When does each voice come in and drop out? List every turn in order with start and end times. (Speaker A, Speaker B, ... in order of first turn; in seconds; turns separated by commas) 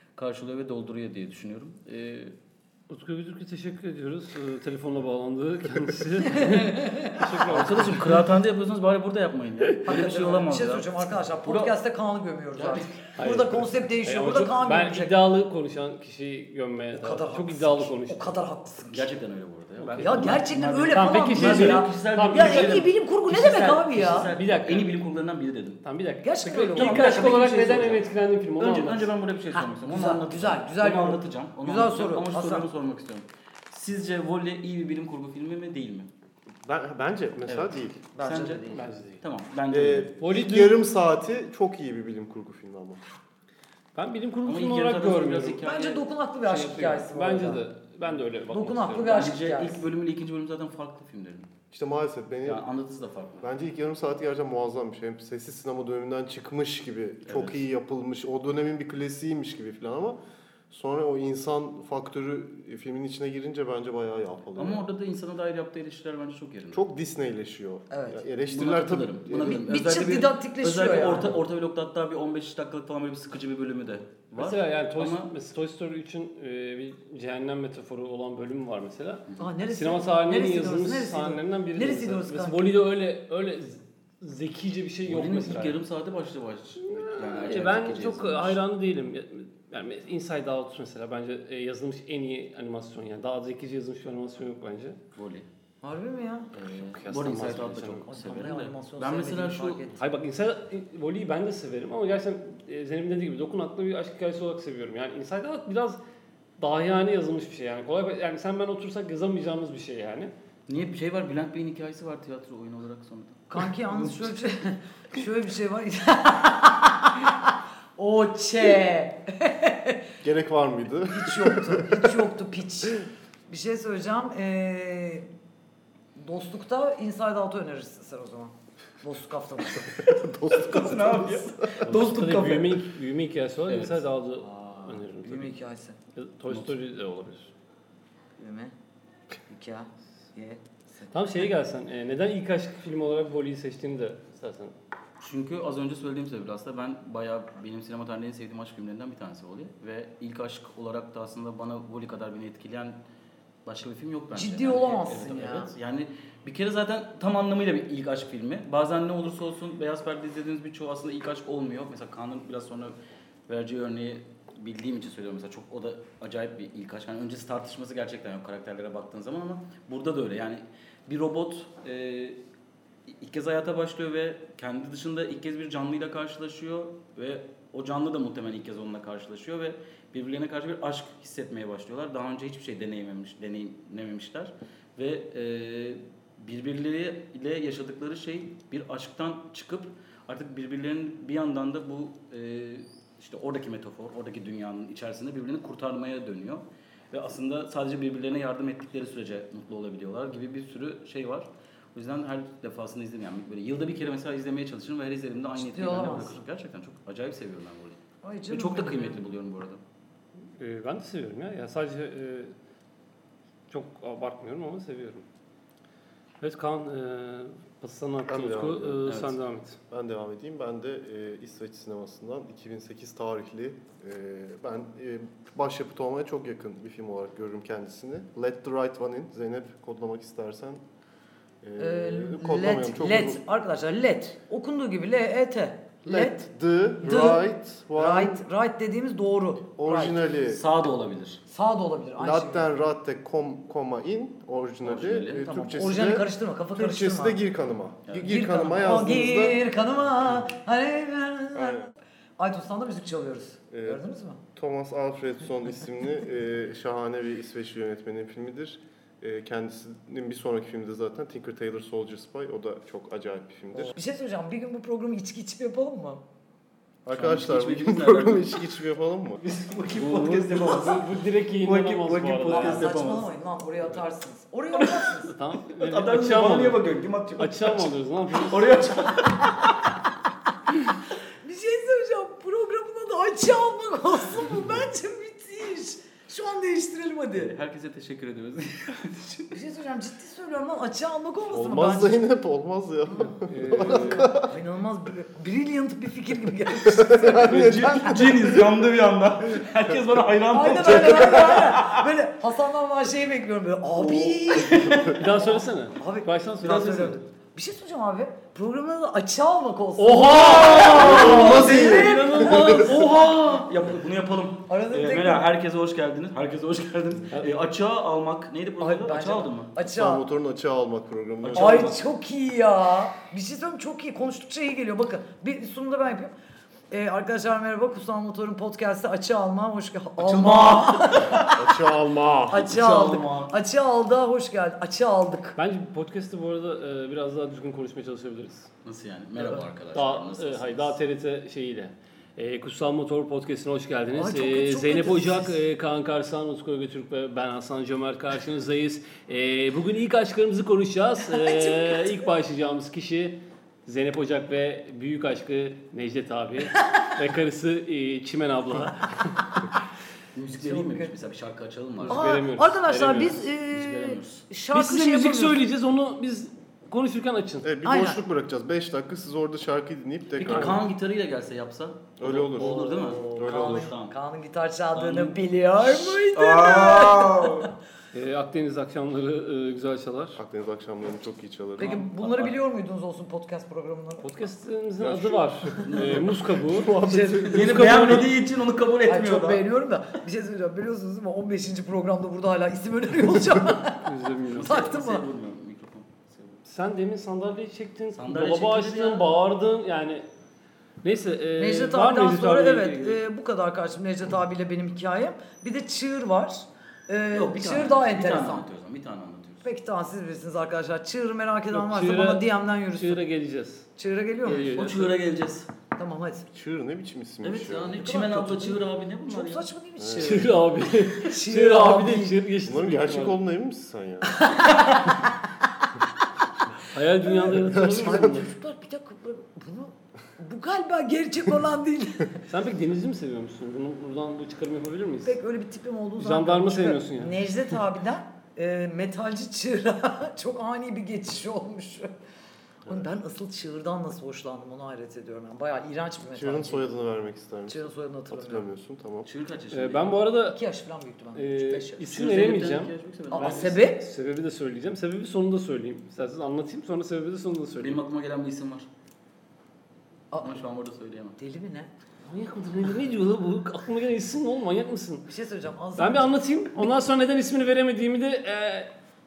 Speaker A: 0.2-2.4, Speaker B: 2.9-8.4, Speaker C: 6.2-7.3, Speaker A: 7.5-10.9, Speaker C: 9.9-15.2, Speaker A: 11.4-11.7, Speaker A: 12.6-13.0, Speaker B: 13.2-18.4, Speaker C: 16.9-19.1, Speaker A: 18.9-25.8, Speaker B: 19.8-22.8, Speaker C: 20.0-24.3, Speaker B: 24.1-24.9, Speaker B: 25.8-29.1, Speaker C: 26.2-27.8, Speaker A: 26.5-36.1, Speaker C: 29.5-32.7, Speaker D: 36.6-38.0, Speaker A: 37.5-40.1, Speaker C: 38.1-38.9, Speaker B: 38.8-39.2, Speaker D: 39.7-43.0, Speaker B: 40.2-40.8, Speaker B: 44.0-45.6, Speaker A: 44.4-46.1, Speaker C: 45.6-47.6, Speaker B: 46.4-49.2, Speaker C: 48.5-49.9, Speaker A: 49.1-51.5, Speaker D: 51.7-52.6, Speaker A: 52.5-53.5, Speaker D: 53.4-60.2, Speaker A: 57.3-57.6, Speaker D: 60.7-64.9, Speaker A: 64.6-66.8, Speaker D: 66.7-69.6, Speaker C: 67.9-68.2, Speaker A: 68.5-75.3, Speaker C: 69.4-71.4, Speaker B: 74.4-85.8, Speaker C: 79.4-82.7, Speaker A: 85.0-88.6, Speaker B: 86.8-95.0, Speaker A: 95.1-95.5, Speaker C: 95.8-96.5, Speaker A: 96.5-99.9, Speaker B: 96.7-98.1, Speaker C: 98.1-100.0, Speaker B: 100.0-106.0, Speaker B: 106.6-110.3, Speaker A: 110.7-114.3, Speaker C: 113.5-120.1, Speaker D: 120.2-122.2, Speaker C: 121.1-125.3, Speaker C: 126.2-129.9, Speaker A: 129.9-132.8, Speaker D: 130.1-131.8, Speaker B: 131.8-135.5, Speaker A: 133.7-134.1, Speaker C: 134.4-136.0, Speaker B: 136.2-137.5, Speaker A: 136.5-136.8, Speaker C: 138.4-138.7, Speaker C: 139.5-141.2, Speaker B: 141.1-144.8, Speaker A: 145.2-153.0, Speaker A: 153.7-163.0, Speaker C: 154.3-155.7, Speaker A: 163.5-172.4, Speaker A: 173.1-209.8, Speaker C: 205.6-206.4, Speaker C: 208.2-209.2, Speaker B: 210.6-212.5, Speaker B: 213.7-215.3, Speaker B: 216.4-219.8, Speaker D: 218.3-219.1, Speaker A: 219.1-219.4, Speaker D: 219.9-230.8, Speaker D: 231.6-233.4, Speaker C: 231.8-236.4, Speaker D: 236.1-238.4, Speaker C: 237.0-240.2, Speaker D: 239.8-240.6, Speaker A: 240.4-241.4, Speaker C: 241.5-242.7, Speaker D: 242.2-249.6, Speaker A: 244.8-246.0, Speaker C: 245.8-247.4, Speaker A: 248.1-248.3, Speaker C: 248.2-254.4, Speaker D: 251.6-251.9, Speaker D: 253.7-254.0, Speaker D: 254.6-263.9, Speaker C: 263.9-266.2, Speaker D: 267.1-269.4, Speaker A: 267.2-268.6, Speaker A: 269.4-273.3, Speaker B: 269.9-272.9, Speaker C: 272.5-275.3, Speaker B: 275.0-276.8, Speaker A: 275.8-279.9, Speaker B: 277.4-278.7, Speaker C: 281.4-287.5, Speaker A: 287.4-289.6, Speaker C: 289.5-292.2, Speaker D: 291.5-294.5, Speaker C: 293.2-297.8, Speaker B: 293.5-294.3, Speaker D: 296.9-298.7, Speaker A: 297.4-302.0, Speaker C: 300.5-312.8, Speaker A: 304.0-304.7, Speaker D: 304.7-305.1, Speaker B: 305.1-307.1, Speaker A: 306.6-307.2, Speaker B: 310.0-311.1, Speaker A: 310.3-319.8, Speaker D: 310.9-312.9, Speaker C: 314.7-315.5, Speaker C: 318.8-320.2, Speaker D: 319.8-322.0, Speaker A: 321.4-322.0, Speaker C: 321.5-326.3, Speaker C: 326.9-331.7, Speaker A: 330.2-331.5, Speaker D: 331.4-332.6, Speaker B: 332.0-332.5, Speaker C: 332.5-335.6, Speaker A: 332.5-333.5, Speaker B: 335.6-338.7, Speaker A: 338.8-341.0, Speaker B: 339.9-359.6, Speaker C: 344.1-345.6, Speaker C: 351.4-352.1, Speaker A: 360.4-362.4, Speaker C: 360.6-361.3, Speaker B: 362.0-363.4, Speaker C: 362.1-365.6, Speaker A: 363.6-364.5, Speaker B: 364.7-367.7, Speaker D: 367.6-370.8, Speaker C: 367.9-368.2, Speaker A: 370.4-374.1, Speaker B: 370.5-370.8, Speaker D: 372.2-373.9, Speaker C: 372.6-377.7, Speaker A: 374.9-377.7, Speaker B: 378.1-380.4, Speaker D: 380.4-382.1, Speaker C: 381.8-384.5, Speaker A: 382.0-382.5, Speaker B: 384.2-388.3, Speaker D: 385.0-387.9, Speaker A: 385.9-386.2, Speaker C: 386.8-387.8, Speaker A: 387.5-389.6, Speaker C: 389.1-395.2, Speaker B: 394.0-394.8, Speaker A: 394.5-396.6, Speaker B: 396.6-400.3, Speaker A: 398.1-399.2, Speaker B: 401.0-403.2, Speaker C: 401.6-408.6, Speaker A: 407.3-409.7, Speaker C: 409.6-413.2, Speaker B: 411.7-413.9, Speaker C: 414.0-414.9, Speaker B: 414.4-415.2, Speaker A: 414.7-415.7, Speaker C: 415.9-416.5, Speaker D: 416.5-418.0, Speaker A: 417.4-419.7, Speaker C: 418.0-422.4, Speaker D: 420.0-420.5, Speaker B: 420.2-423.4, Speaker D: 422.6-424.4, Speaker C: 424.4-425.3, Speaker B: 426.9-428.5, Speaker C: 427.3-432.4, Speaker D: 427.5-428.3, Speaker B: 432.5-435.4, Speaker C: 435.2-442.1, Speaker B: 436.2-437.4, Speaker C: 442.9-446.9, Speaker D: 446.3-449.3, Speaker C: 447.7-448.7, Speaker A: 449.2-450.3, Speaker B: 449.7-450.6, Speaker C: 450.5-452.1, Speaker B: 451.3-458.0, Speaker A: 452.0-453.8, Speaker C: 453.3-454.0, Speaker A: 457.8-458.9, Speaker C: 460.3-460.6, Speaker A: 460.4-461.4, Speaker C: 461.4-461.9, Speaker B: 462.2-465.3, Speaker C: 465.3-466.3, Speaker B: 466.0-468.9